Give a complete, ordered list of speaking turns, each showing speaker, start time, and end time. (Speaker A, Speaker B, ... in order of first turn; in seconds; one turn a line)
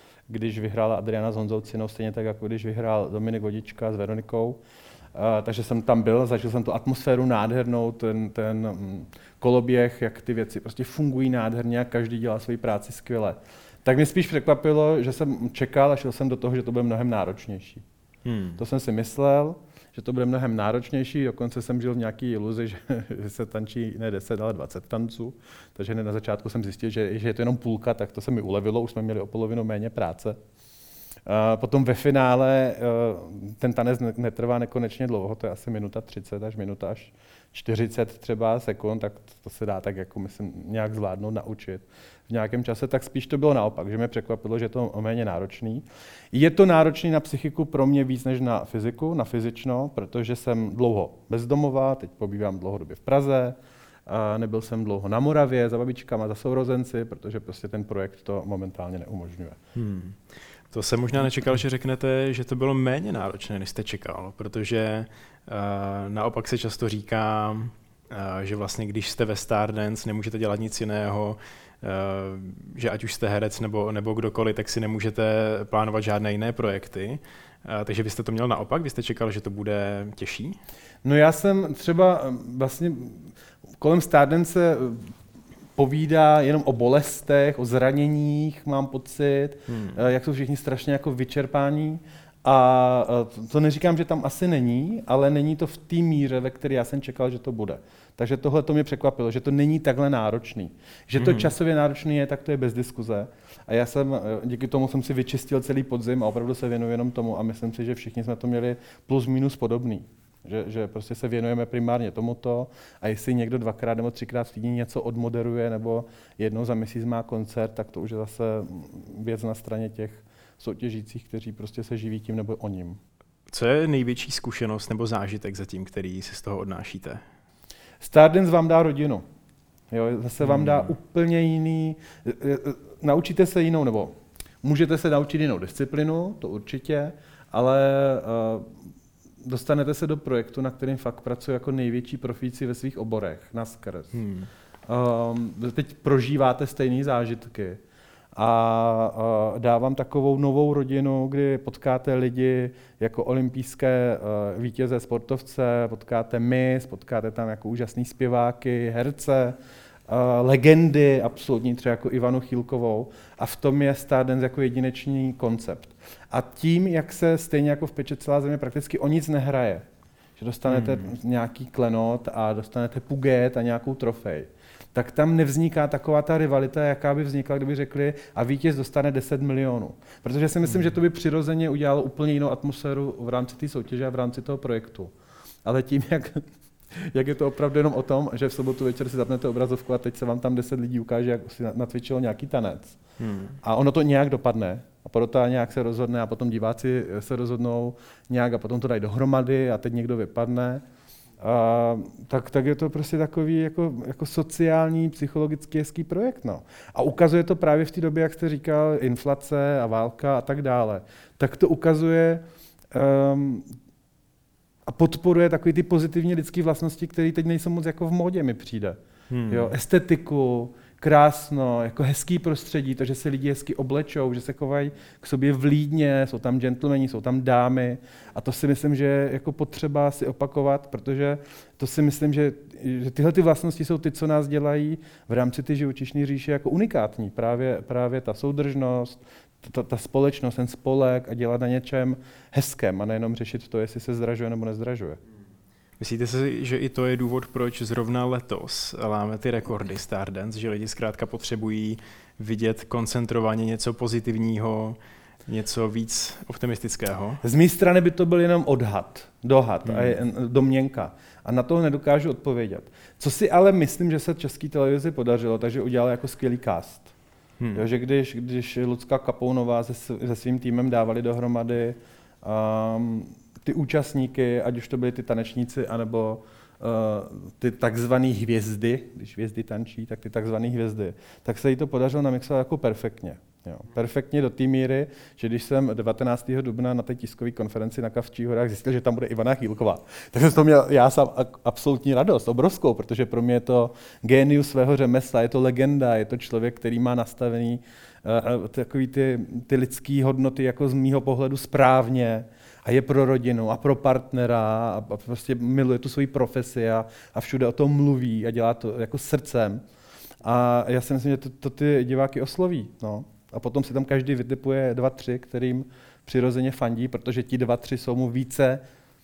Speaker A: 0.3-4.6
Speaker A: 5.2-17.8
Speaker B: 18.2-18.6
Speaker A: 18.6-30.4
Speaker A: 31.3-59.6
Speaker B: 59.8-80.6
Speaker A: 81.0-83.3
Speaker A: 83.8-85.1
Speaker A: 85.8-123.0
Speaker B: 89.7-90.0
Speaker B: 101.2-101.5
Speaker B: 123.5-127.2
Speaker A: 128.0-129.2
Speaker A: 129.9-138.8
Speaker B: 130.4-130.9
Speaker A: 139.4-144.1
Speaker B: 144.1-144.5
Speaker A: 144.9-147.8
Speaker A: 148.3-159.6
Speaker A: 160.1-169.9
Speaker A: 170.4-185.1
Speaker B: 170.7-171.2
Speaker B: 180.7-180.9
Speaker A: 185.7-193.0
Speaker B: 193.2-193.6
Speaker A: 193.6-200.8
Speaker A: 201.4-213.7
Speaker A: 214.9-245.2
Speaker B: 219.3-219.7
Speaker B: 246.0-257.4
Speaker A: 257.4-267.1
Speaker B: 259.9-260.2
Speaker B: 267.6-267.9
Speaker A: 267.8-309.8
Speaker A: 310.4-318.8